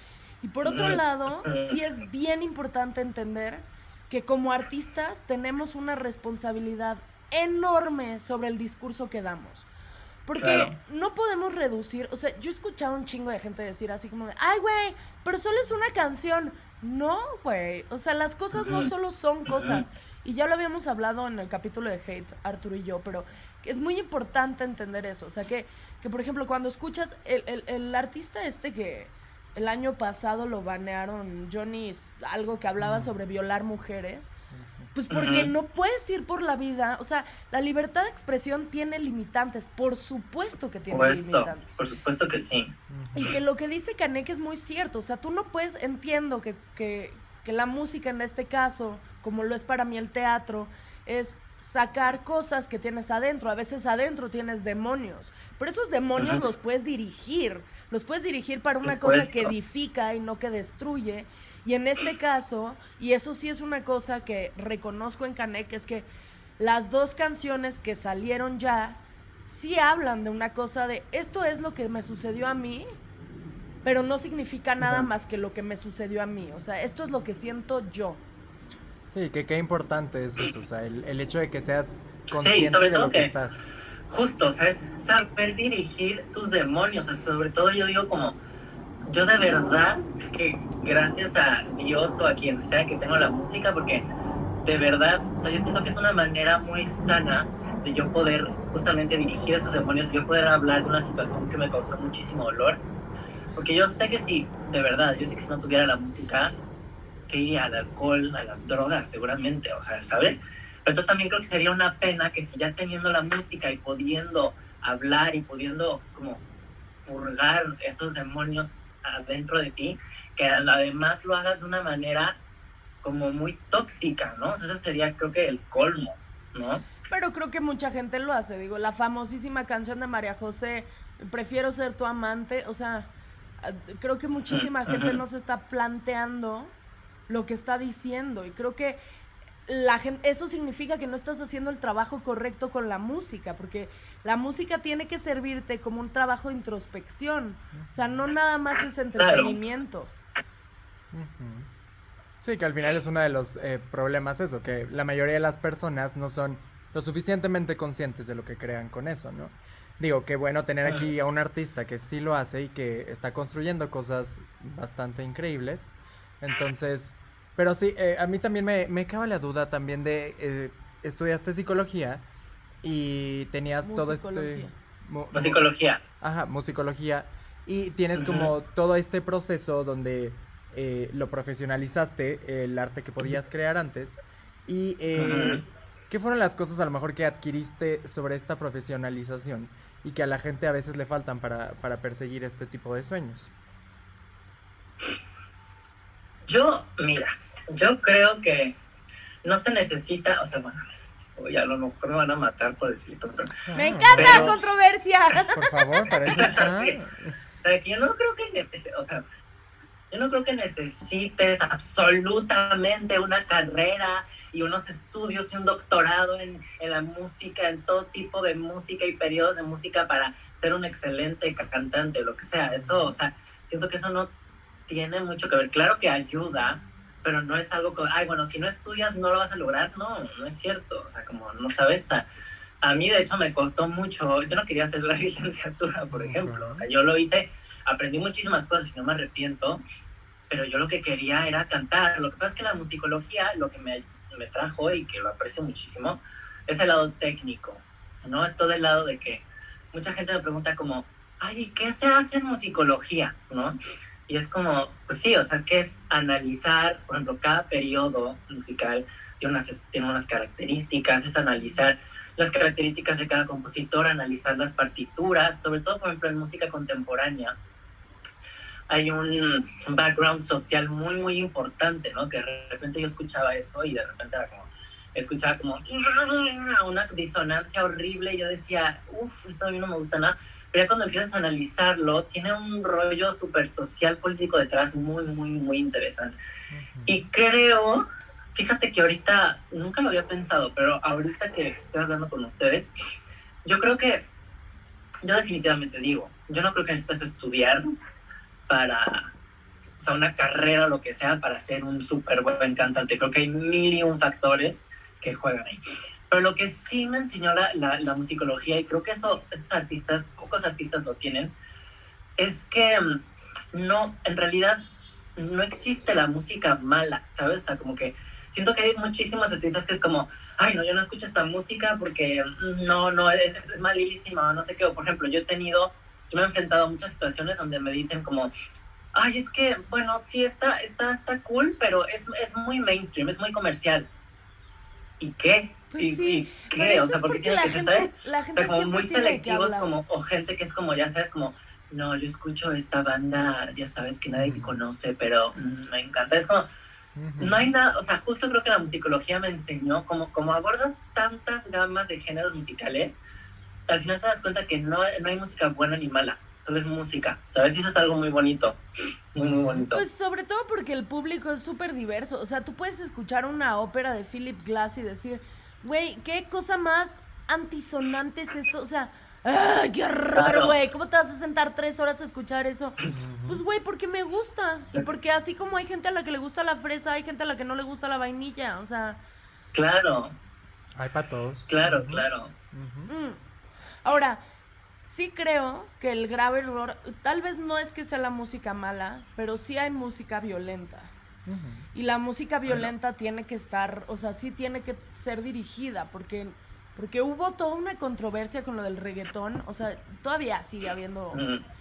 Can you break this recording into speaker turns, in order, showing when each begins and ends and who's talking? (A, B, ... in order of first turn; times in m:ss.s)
0:00.4-0:09.6 A
0:00.6-0:01.8 B
0:10.2-0:34.3 A
0:10.4-0:10.7 B
0:18.5-0:18.9 B
0:19.4-0:19.8 B
0:32.8-0:33.1 C
0:34.5-0:34.9 C
0:34.9-0:41.8 A
0:35.1-0:35.5 B
0:40.9-0:42.7 B
0:42.9-0:43.3 C
0:43.1-1:06.1 A
0:56.2-0:56.4 B
0:58.8-0:59.5 B
1:06.6-1:12.9 A
1:13.8-1:18.2 A
1:14.8-1:15.1 C
1:19.0-1:23.6 C
1:22.3-1:23.3 B
1:24.1-1:28.4 B
1:29.1-1:34.0 B
1:34.6-1:42.8 B
1:43.5-1:46.5 B
1:47.3-1:56.4 B
1:57.0-2:02.4 B
2:03.0-2:06.8 B
2:07.1-2:16.7 A
2:14.5-2:15.2 B
2:17.3-2:19.0 A
2:19.7-2:30.1 A
2:27.7-2:28.2 C
2:29.2-2:29.6 B
2:31.1-2:31.7 C
2:32.4-2:52.3 C
2:52.8-2:55.6 C
2:53.8-2:54.7 A
2:55.3-2:56.0 B
2:56.2-3:13.5 C
2:58.2-2:58.5 B
3:05.2-3:05.6 B
3:16.4-3:18.8 B
3:19.4-3:20.8 B
3:21.4-3:24.6 B
3:23.6-3:24.6 C
3:23.7-3:25.9 A
3:25.5-3:27.4 C
3:26.3-3:26.9 B
3:27.6-3:29.2 B
3:30.1-3:44.3 B
3:42.7-3:43.2 C
3:44.9-3:52.2 B
3:52.8-3:59.8 B
3:56.1-3:56.8 C
4:00.5-4:13.7 B
4:14.3-4:27.6 B
4:28.9-4:46.3 B
4:46.7-4:47.2 C
4:47.1-4:48.0 B
4:48.5-4:52.9 B
4:53.6-4:54.3 B
4:55.2-4:57.8 B
4:58.7-4:59.3 B
5:00.0-5:11.5 B
5:12.4-5:13.2 B
5:13.7-5:14.8 B
5:15.4-5:28.5 B
5:29.1-5:34.1 B
5:35.2-5:46.6 B
5:35.9-5:39.9 A
5:44.4-5:44.7 C
5:47.1-5:47.7 C
5:47.4-5:53.2 B
5:53.9-5:58.8 B
5:59.3-6:00.0 B
5:59.4-5:59.9 C
5:59.9-6:19.2 A
6:10.3-6:10.8 B
6:13.1-6:13.6 C
6:19.7-6:20.4 B
6:20.9-6:23.1 C
6:21.7-6:22.5 B
6:23.1-6:23.4 A
6:24.0-6:24.4 A
6:25.0-6:31.1 A
6:31.4-6:31.8 C
6:31.9-6:41.4 A
6:32.6-6:32.9 B
6:41.3-6:41.6 B